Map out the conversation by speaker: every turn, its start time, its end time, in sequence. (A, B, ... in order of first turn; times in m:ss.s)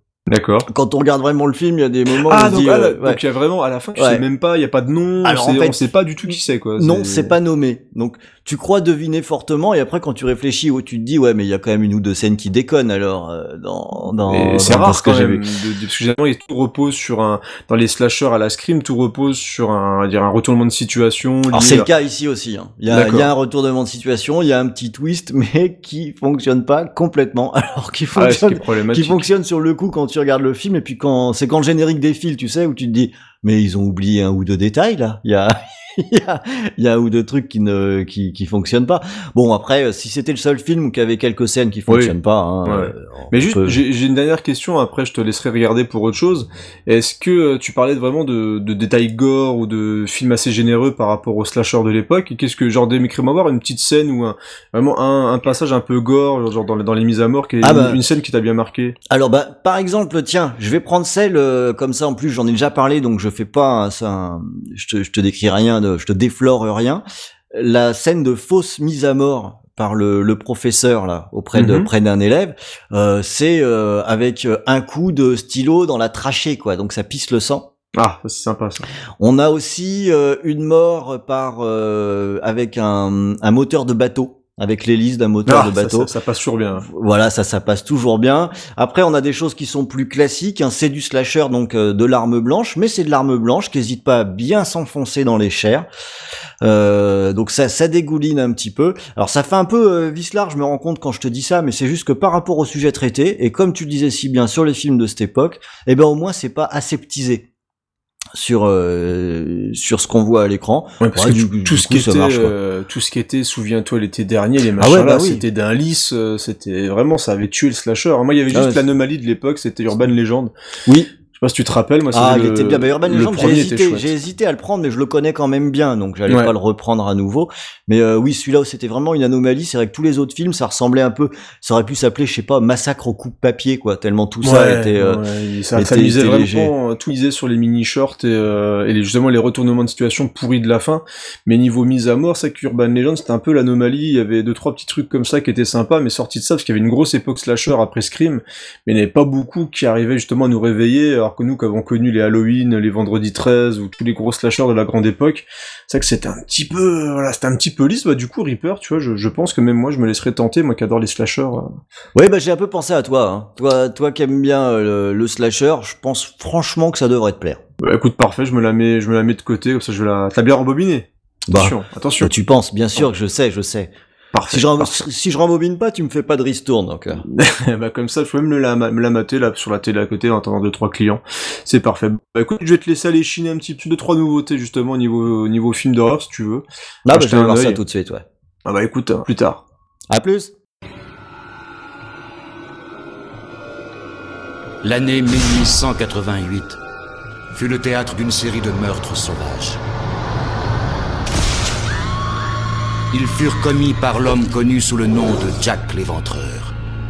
0:00.3-0:00.7 A
0:00.7-0:03.2 B
0:02.1-0:07.3 A
0:03.9-0:04.2 B
0:05.2-0:05.8 B
0:06.8-0:15.4 B
0:14.3-0:21.9 A
0:21.5-0:43.8 B
0:22.9-0:23.3 A
0:28.1-0:29.3 A
0:41.9-0:58.9 A
0:57.6-0:58.0 B
0:59.1-1:17.7 B
1:11.5-1:11.9 A
1:18.0-1:18.9 A
1:19.2-1:26.1 B
1:25.4-1:26.8 A
1:26.8-1:35.9 B
1:36.6-1:47.5 B
1:48.3-1:52.5 B
1:51.0-2:00.5 A
1:54.8-1:55.4 B
1:58.5-1:58.8 B
2:01.3-2:04.1 A
2:02.1-2:15.2 B
2:06.3-2:06.5 A
2:14.4-2:41.8 A
2:15.7-2:16.7 B
2:42.1-2:47.6 B
2:47.8-2:52.3 A
2:51.5-2:53.9 B
2:54.3-2:55.0 A
2:54.5-2:57.2 B
2:57.3-3:07.8 A
3:07.0-3:08.2 B
3:08.6-3:09.6 A
3:10.1-3:10.5 B
3:14.8-3:16.8 C
3:17.5-3:19.8 C
3:23.1-3:26.7 C